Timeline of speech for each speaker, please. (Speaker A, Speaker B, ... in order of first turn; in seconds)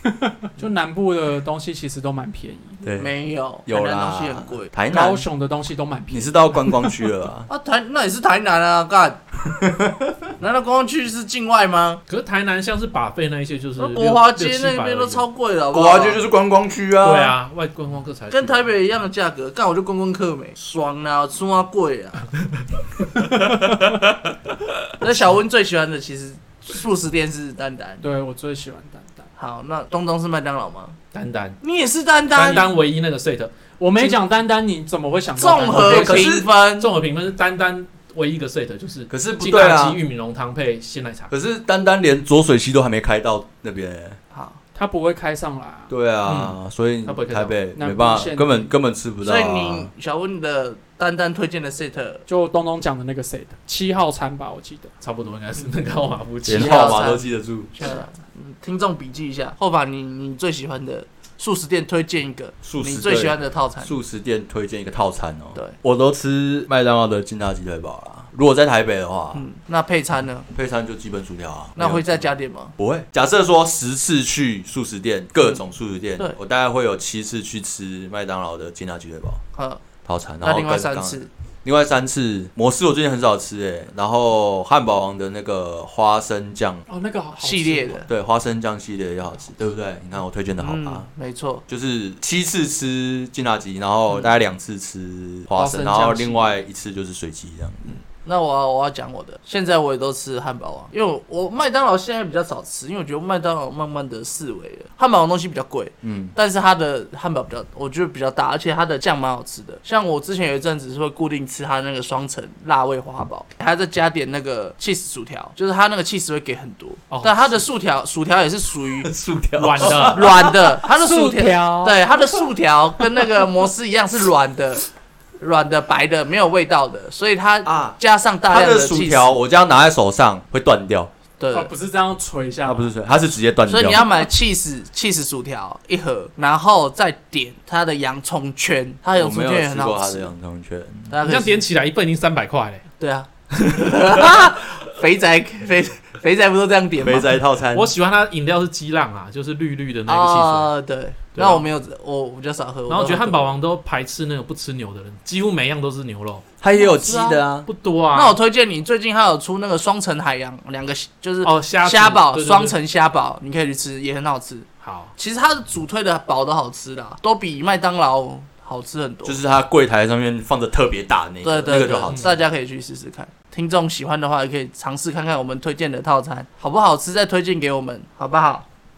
Speaker A: 0.2-2.8, 4.9-6.9, 28.0-29.3, 32.4-32.7, 33.8-36.3, 44.7-45.9, 47.8-48.7, 52.3-54.9, 86.9-88.0, 95.5-96.5, 120.9-122.0, 131.5-132.9
Speaker B: 2.8-3.1, 3.6-5.2, 6.1-7.5, 9.5-10.2, 15.7-17.3, 35.8-36.5, 39.1-40.0, 41.3-44.2, 45.9-49.9, 56.4-57.7, 62.6-69.4, 70.5-72.3, 72.8-79.4, 80.0-86.8, 88.1-91.1, 91.7-98.0, 106.0-106.3, 119.0-120.7, 127.6-128.0, 128.5-131.1, 132.6-134.1, 139.1-141.1, 147.0-147.9, 156.6-157.7, 169.2-172.3
Speaker C: 3.0-4.7, 7.5-9.2, 10.4-12.0, 13.8-16.2, 18.3-22.3, 25.0-28.0, 29.4-31.0, 31.6-32.7, 35.4-36.9, 44.3-44.6, 49.2-52.2, 56.5-63.9, 69.3-70.5, 71.8-72.7, 79.5-79.8, 80.4-81.3, 87.3-88.1, 90.6-91.6, 98.2-119.1, 119.8-124.9, 125.4-129.3, 131.4-131.7, 133.7-140.3, 141.1-141.6, 143.0-147.4, 150.1-153.6, 156.7-157.4, 158.1-169.4, 171.4-178.7
Speaker D: 12.1-15.2, 17.0-18.6, 31.1-31.6, 32.3-33.5, 36.8-41.3, 46.2-47.5, 55.0-57.0, 117.1-117.6, 119.5-120.3, 141.2-142.8, 147.7-150.7, 151.3-151.6, 152.9-156.4, 157.7-158.4, 161.4-162.8, 164.8-165.1, 172.1-172.3